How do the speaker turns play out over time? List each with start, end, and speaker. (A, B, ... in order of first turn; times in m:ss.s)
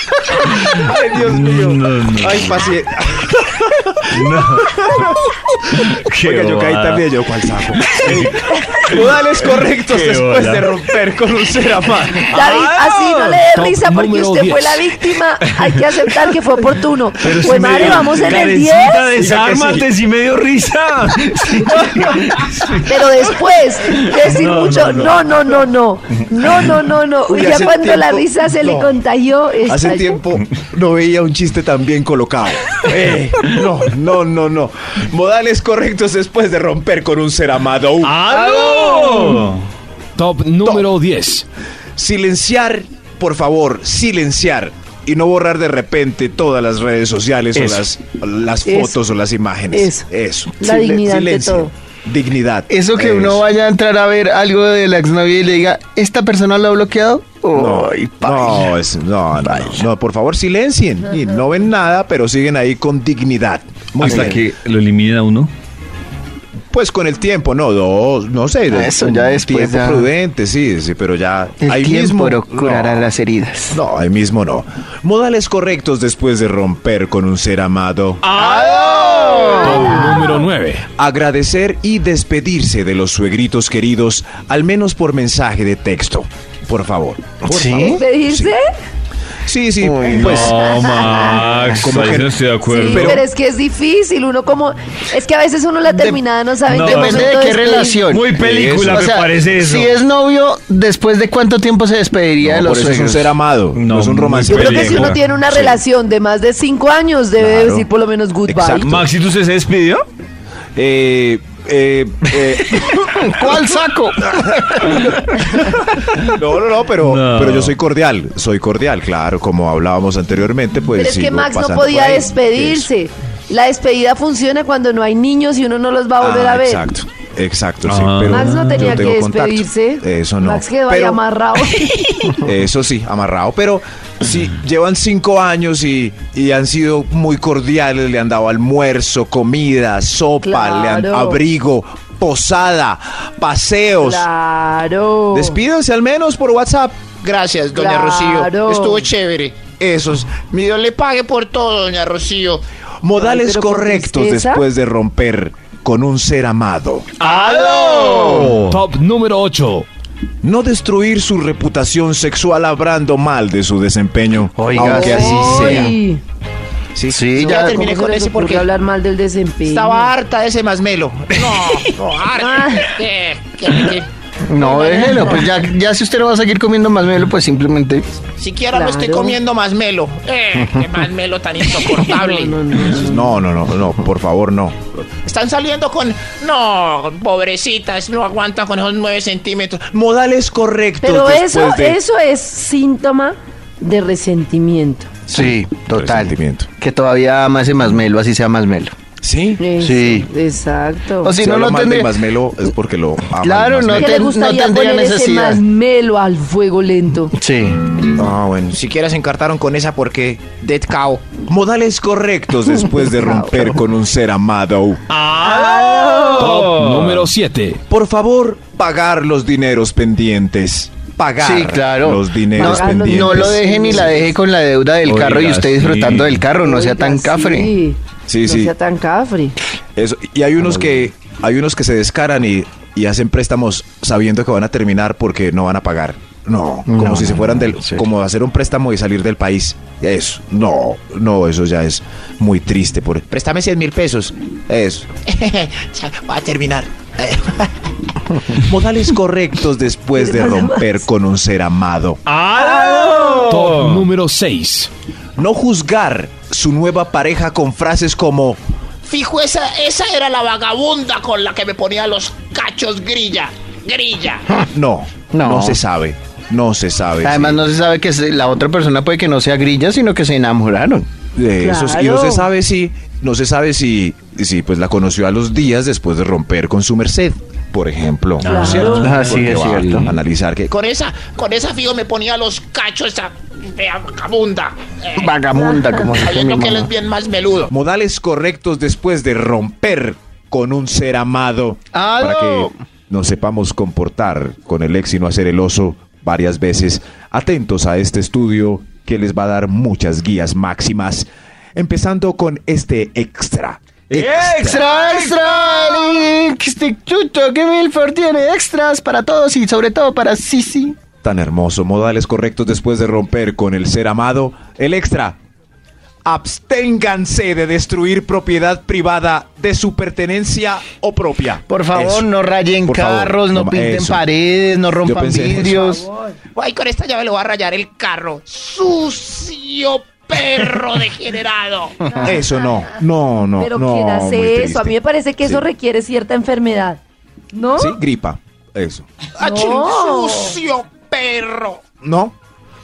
0:00.4-0:02.7 A
0:00.7-0:04.1 B
0:04.1-0:07.0 A
0:04.7-0:05.4 B
0:06.2-0:12.3 B
0:07.8-0:09.1 A
0:09.7-0:10.7 A
0:12.3-0:13.5 A
0:12.3-0:19.2 C
0:13.5-0:15.0 D
0:15.4-0:16.3 A
0:17.2-0:23.3 A
0:19.2-0:19.9 B
0:22.8-0:30.2 C
0:23.9-0:25.5 A
0:27.3-0:29.0 B
0:29.7-0:38.2 B
0:38.0-0:39.6 A
0:38.5-0:39.4 C
0:40.2-0:41.5 D
0:40.6-0:40.9 B
0:42.0-0:53.4 B
0:47.6-0:47.8 E
0:48.6-0:49.0 C
0:49.7-0:50.1 C
0:50.6-0:51.7 C
0:52.7-0:58.7 E
0:57.5-1:04.4 B
0:59.4-0:59.8 E
1:04.0-1:05.5 A
1:04.0-1:04.3 E
1:06.7-1:13.1 B
1:08.7-1:10.1 E
1:11.6-1:13.8 E
1:13.7-1:18.2 B
1:18.2-1:20.8 D
1:18.4-1:20.2 E
1:18.4-1:19.9 A
1:21.0-1:28.6 B
1:27.5-1:28.0 E
1:27.9-1:28.6 C
1:29.4-1:30.6 B
1:29.8-1:30.4 E
1:30.0-1:33.2 A
1:30.4-1:31.2 C
1:31.2-1:31.8 E
1:31.8-1:32.4 B
1:32.7-1:38.0 C
1:32.9-1:33.2 B
1:35.8-1:36.2 E
1:36.7-1:37.3 A
1:36.8-1:38.4 E
1:38.1-1:40.0 A
1:38.4-1:39.1 B
1:38.9-1:43.4 E
1:42.4-1:45.7 B
1:43.8-1:45.2 A
1:44.5-1:49.0 C
1:47.4-1:47.9 B
1:48.5-1:49.0 B
1:48.6-1:50.0 A
1:50.8-1:53.5 B
1:52.6-1:54.9 E
1:54.2-2:02.9 B
1:57.0-1:57.8 A
2:00.9-2:06.9 C
2:06.2-2:11.2 B
2:07.8-2:09.0 A
2:08.3-2:12.2 C
2:12.0-2:12.3 A
2:12.4-2:24.3 B
2:20.4-2:21.4 C
2:24.0-2:25.6 C
2:25.3-2:27.0 B
2:27.2-2:29.6 F
2:27.7-2:29.1 C
2:29.8-2:30.5 B
2:30.4-2:32.6 F
2:33.0-2:37.1 B
2:33.2-2:34.7 C
2:37.2-2:38.8 A
2:37.4-2:38.6 E
2:38.4-2:39.9 D
2:40.4-2:46.0 B
2:44.6-2:46.0 E
2:44.8-2:46.2 C
2:47.0-2:47.2 B
2:47.1-2:47.9 E
2:47.4-2:50.1 C
2:47.4-2:48.7 F
2:49.7-2:54.0 F
2:52.4-2:52.9 C
2:54.4-2:58.1 E
2:54.6-2:55.5 C
2:58.4-3:02.6 F
2:58.7-2:59.4 C
3:02.0-3:03.4 C
3:02.8-3:04.8 B
3:05.3-3:09.9 F
3:09.8-3:12.0 B
3:11.0-3:15.1 C
3:15.3-3:18.9 E
3:15.3-3:16.7 B
3:19.2-3:19.6 B
3:19.6-3:21.3 C
3:19.8-3:20.3 E
3:21.2-3:22.1 E
3:21.4-3:24.2 B
3:23.4-3:25.6 E
3:23.9-3:27.3 C
3:27.3-3:27.8 E
3:28.2-3:30.6 B
3:28.8-3:29.3 F
3:30.5-3:31.3 F
3:31.4-3:35.0 B
3:33.0-3:33.6 C
3:35.1-3:37.3 A
3:35.4-3:36.5 C
3:36.4-3:37.8 D
3:37.9-3:44.1 B
3:41.4-3:47.7 E
3:42.6-3:44.3 C
3:45.0-3:46.5 A
3:46.6-3:49.6 C
3:48.3-3:48.7 B
3:50.0-4:05.2 B
3:50.6-3:50.9 E
3:56.9-3:58.0 E
4:05.3-4:07.6 F
4:08.6-4:12.2 B
4:10.2-4:11.0 C
4:12.3-4:14.1 A
4:12.6-4:13.5 C
4:13.4-4:14.9 D
4:15.4-4:18.6 B
4:19.1-4:24.4 F
4:24.7-4:27.6 B
4:25.3-4:25.8 E
4:27.2-4:31.1 E
4:31.4-4:40.7 B
4:31.6-4:32.5 C
4:38.4-4:40.1 A
4:38.4-4:39.1 C
4:39.0-4:40.1 E
4:40.7-4:45.3 F
4:45.2-4:46.9 E
4:46.0-4:47.7 F
4:47.7-5:04.8 B
4:51.9-4:52.7 E
5:04.1-5:06.3 A
5:04.6-5:11.0 E
5:11.2-5:15.4 B
5:16.3-5:22.3 B
5:21.7-5:26.1 E
5:22.8-5:24.2 B
5:25.0-5:25.9 B
5:25.7-5:26.4 C
5:26.6-5:32.1 F
5:32.2-5:35.6 B
5:33.6-5:37.0 C
5:37.5-5:38.0 C
5:37.8-5:39.1 B
5:39.4-5:40.6 C
5:39.4-5:41.8 F
5:42.0-5:42.4 B